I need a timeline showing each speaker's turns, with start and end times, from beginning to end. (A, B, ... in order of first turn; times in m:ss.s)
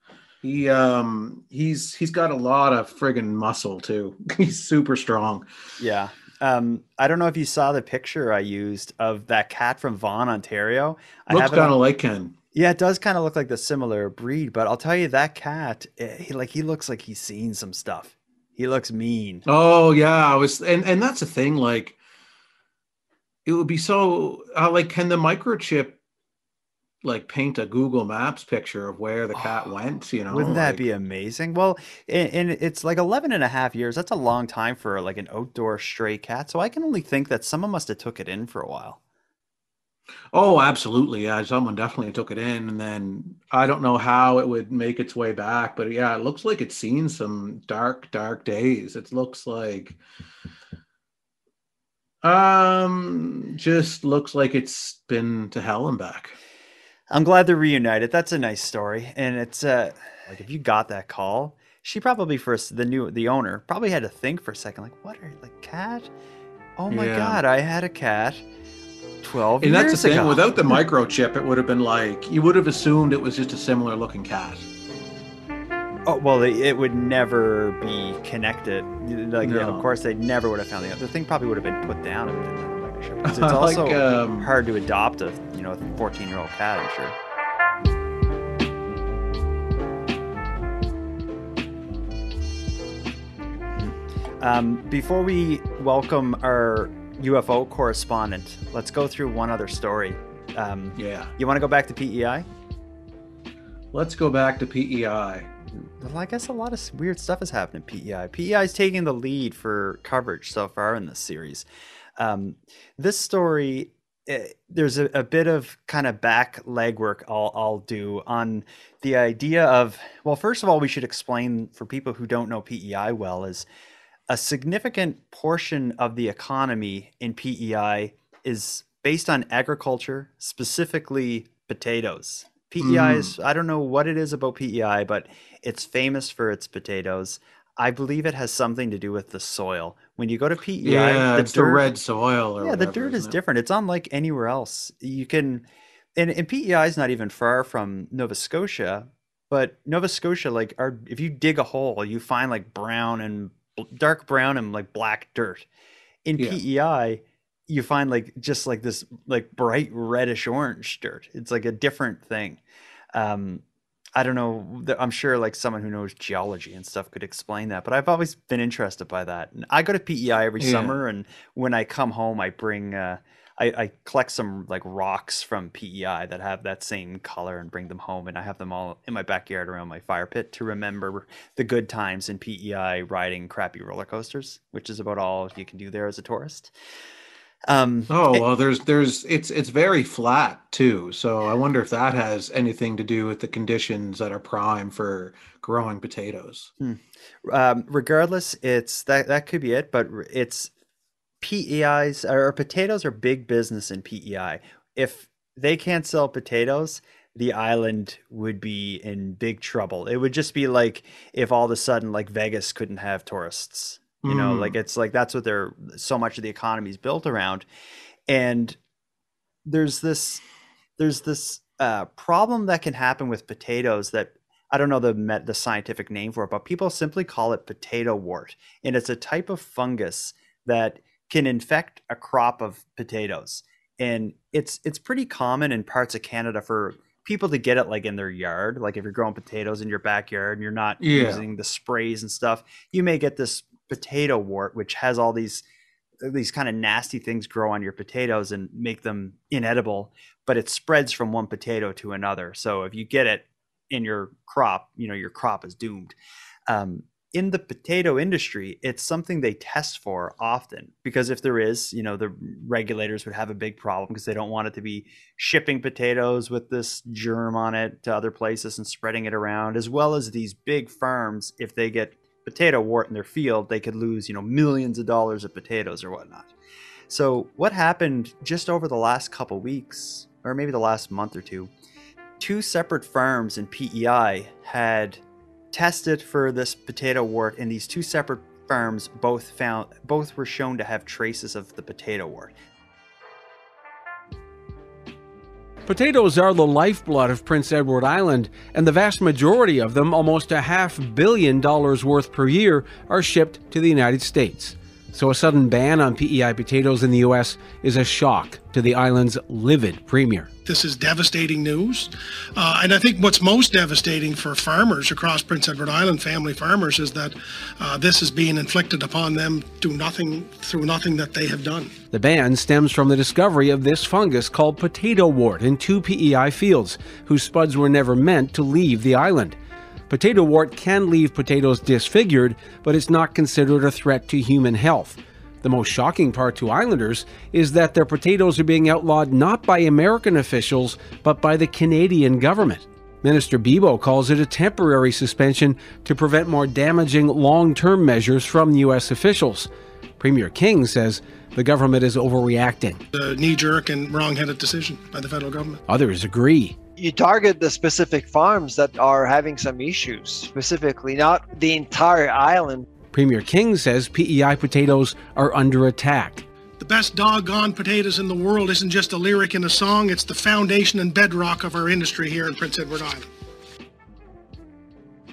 0:00.4-0:05.4 A
0:05.8-0:11.8 B
0:11.3-0:12.4 A
0:12.5-0:19.4 B
0:19.4-0:22.0 A
0:23.4-0:26.0 A
0:27.0-0:30.9 A
0:30.3-0:39.0 B
0:40.3-0:50.0 A
0:52.2-0:56.4 A
0:57.1-1:06.1 B
1:06.8-1:08.4 B
1:06.9-1:07.4 A
1:09.2-1:10.8 B
1:09.6-1:14.6 A
1:16.1-1:27.1 B
1:19.4-1:19.9 A
1:23.2-1:24.5 A
1:33.8-1:42.5 B
1:41.0-1:41.3 A
1:43.9-1:45.5 A
1:45.7-1:51.6 B
1:52.2-2:03.6 B
2:04.3-2:21.9 B
2:12.8-2:13.3 A
2:20.8-2:23.4 A
2:22.6-2:35.7 B
2:36.2-2:42.6 B
2:43.1-2:43.6 B
2:44.1-3:06.7 B
2:50.6-2:51.0 A
3:07.7-3:08.4 B
3:08.1-3:16.7 A
3:16.8-3:20.7 B
3:21.4-3:37.6 B
3:34.2-3:34.8 A
3:38.3-3:38.8 B
3:39.6-3:40.4 B
3:41.0-4:05.6 B
4:01.0-4:01.4 A
4:06.2-4:16.2 B
4:16.7-4:36.5 B
4:37.1-4:41.7 B
4:42.4-4:45.2 B
4:45.7-4:52.5 B
4:55.9-5:10.5 C
5:10.6-5:21.9 D
5:22.1-5:29.6 C
5:30.1-5:49.7 C
5:50.2-5:53.0 C
5:53.1-5:55.8 D
5:55.9-5:56.7 C
5:57.0-6:02.9 E
6:03.1-6:06.4 C
6:06.8-6:13.3 D